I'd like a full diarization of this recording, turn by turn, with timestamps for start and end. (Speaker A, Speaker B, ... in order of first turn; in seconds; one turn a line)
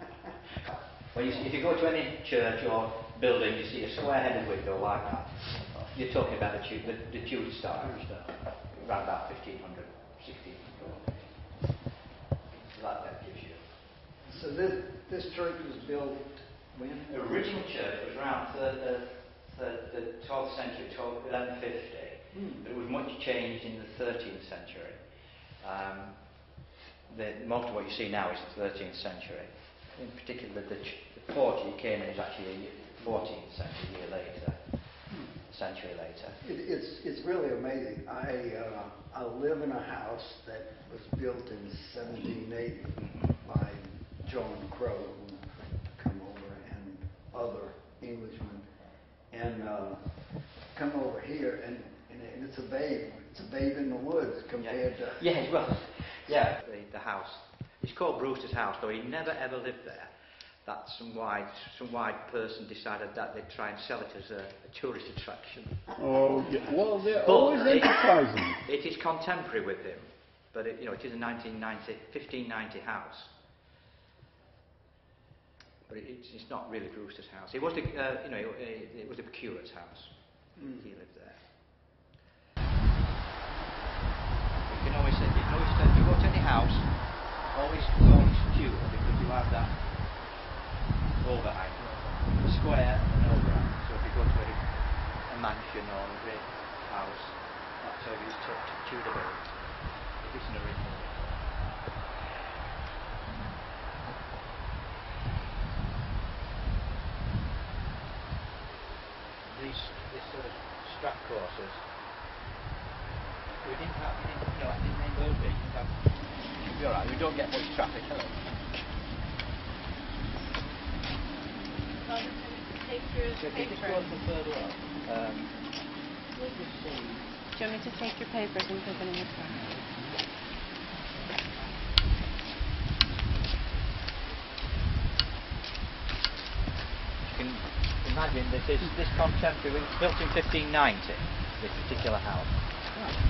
Speaker A: 1.1-11.3
Speaker A: 12.5-13.7
Speaker B: 14.2-17.2
Speaker A: 17.1-25.0
Speaker B: 22.3-22.6
Speaker A: 25.6-26.5
Speaker A: 27.1-36.4
Speaker B: 36.4-48.7
Speaker A: 43.0-43.4
Speaker B: 49.3-55.2
Speaker A: 54.6-60.1
Speaker A: 60.6-65.8
Speaker C: 66.0-68.6
Speaker A: 66.7-73.3
Speaker A: 75.9-81.4
Speaker A: 84.7-86.9
Speaker A: 87.4-89.8
Speaker A: 91.2-101.5
Speaker A: 109.5-111.8
Speaker A: 113.6-118.4
Speaker D: 122.1-124.0
Speaker A: 123.3-125.6
Speaker A: 126.3-127.3
Speaker D: 127.5-129.7
Speaker A: 128.7-129.1
Speaker A: 137.2-142.5